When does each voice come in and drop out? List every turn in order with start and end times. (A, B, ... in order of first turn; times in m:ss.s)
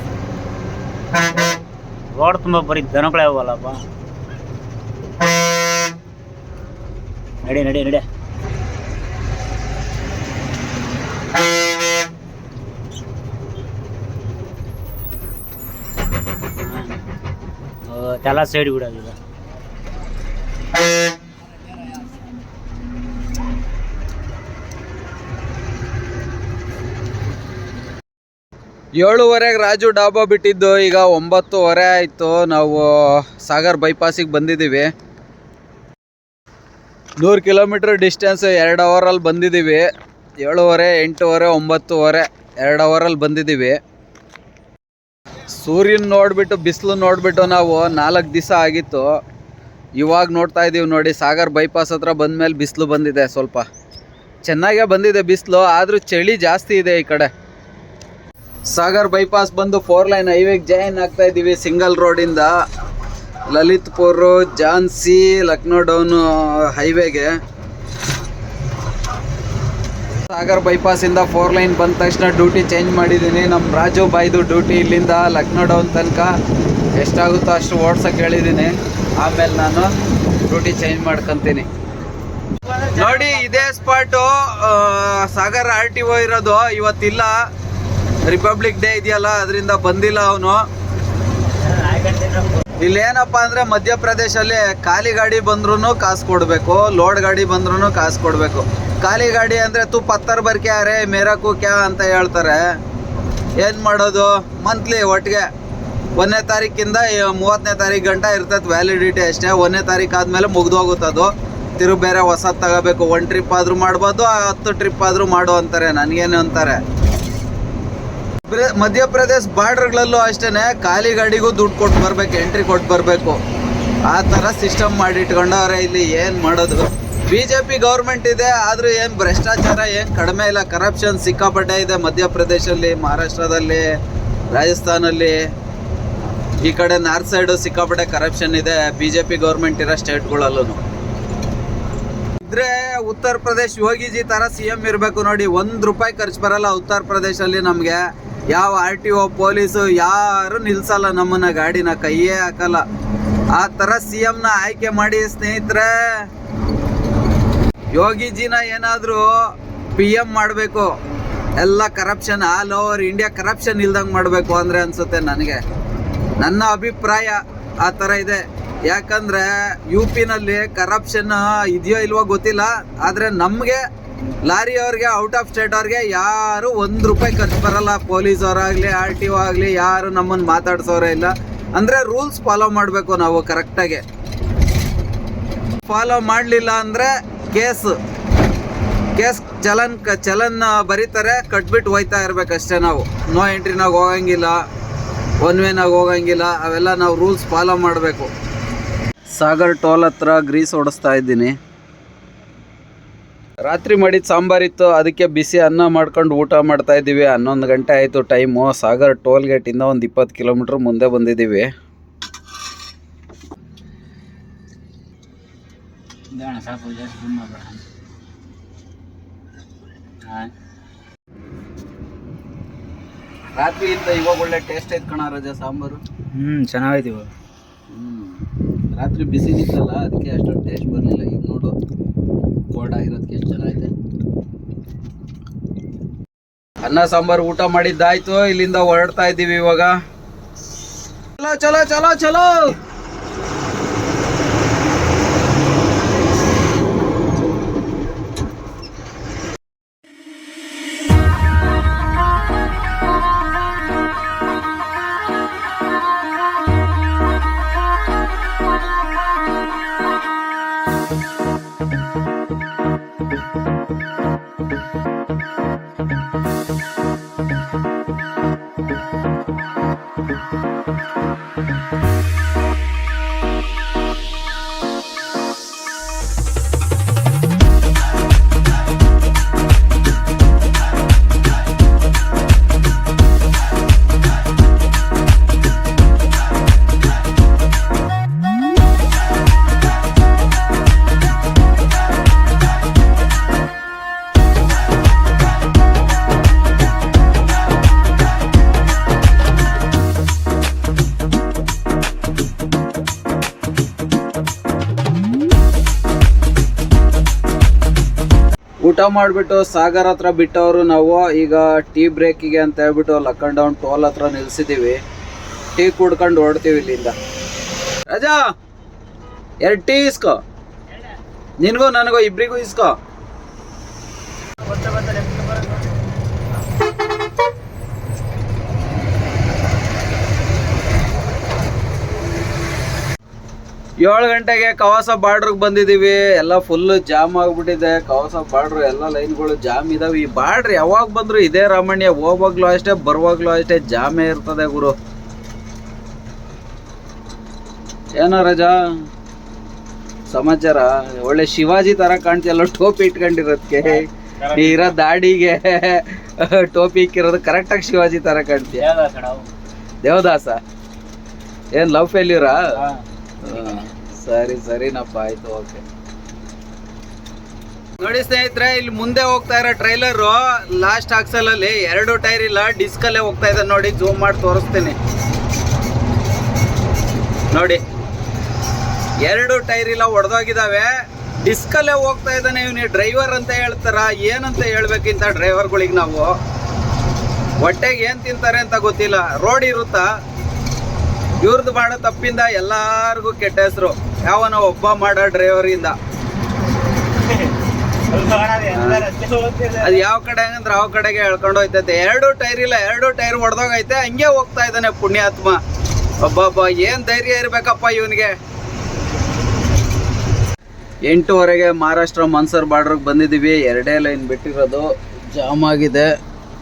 0:02.1-0:03.8 A
0:07.4-0:08.1 A
0:16.6-0:16.9 A
0:17.9-0:19.2 A
0:29.0-0:34.9 B
0:37.2-0:39.9 B
0:40.4-0:43.8 B
0:45.5-0:49.1 B
0:50.0-0:53.7 B
0:54.4-0:57.3 B
0:58.7-1:02.5 B
1:03.5-1:07.3 B
1:10.3-1:16.3 B
1:17.0-1:19.9 B
1:20.5-1:21.7 B
1:22.6-1:23.7 A
1:23.0-1:27.4 B
1:28.2-1:30.6 B
1:31.6-1:32.6 A
1:32.8-1:42.6 B
1:43.6-1:45.5 B
1:46.2-1:56.8 B
1:58.4-2:03.4 B
2:04.1-2:13.8 B
2:14.5-2:15.4 B
2:16.6-2:20.8 B
2:22.4-2:32.8 B
2:33.5-2:36.3 B
2:37.9-2:39.3 B
2:40.0-2:40.9 B
2:41.6-2:45.6 B
2:46.4-2:53.8 B
2:54.5-3:04.0 B
3:05.9-3:08.0 B
3:09.2-3:14.6 B
3:15.4-3:18.3 B
3:19.4-3:21.6 B
3:23.6-3:31.7 B
3:36.3-3:37.8 A
3:40.2-3:40.5 A
3:43.6-3:46.0 B
3:46.3-3:47.3 A
3:47.9-3:51.8 B
3:52.7-3:53.9 B
3:56.8-4:00.0 B
4:01.4-4:02.8 B
5:08.8-5:15.0 B
5:15.8-5:17.2 B
5:18.1-5:18.4 B
5:19.6-5:20.4 B
5:21.6-5:23.0 B
5:24.7-5:25.8 A
5:34.0-5:45.0 B
5:48.2-5:48.8 B
5:50.3-5:58.8 B
5:53.8-5:55.0 A
5:58.8-5:59.5 A
6:00.0-6:00.6 B
6:01.7-6:02.7 B
6:02.7-6:03.9 A
6:03.4-6:05.8 B
6:08.0-6:15.0 B
6:17.5-6:17.8 B
6:19.2-6:20.9 B
6:21.4-6:26.3 B
6:27.6-6:30.1 B
6:31.4-6:36.0 B
6:37.2-6:37.5 A
6:38.0-6:40.0 A
6:38.7-6:39.1 B
6:39.8-6:45.6 B
6:46.2-6:48.4 B
6:51.1-6:56.1 B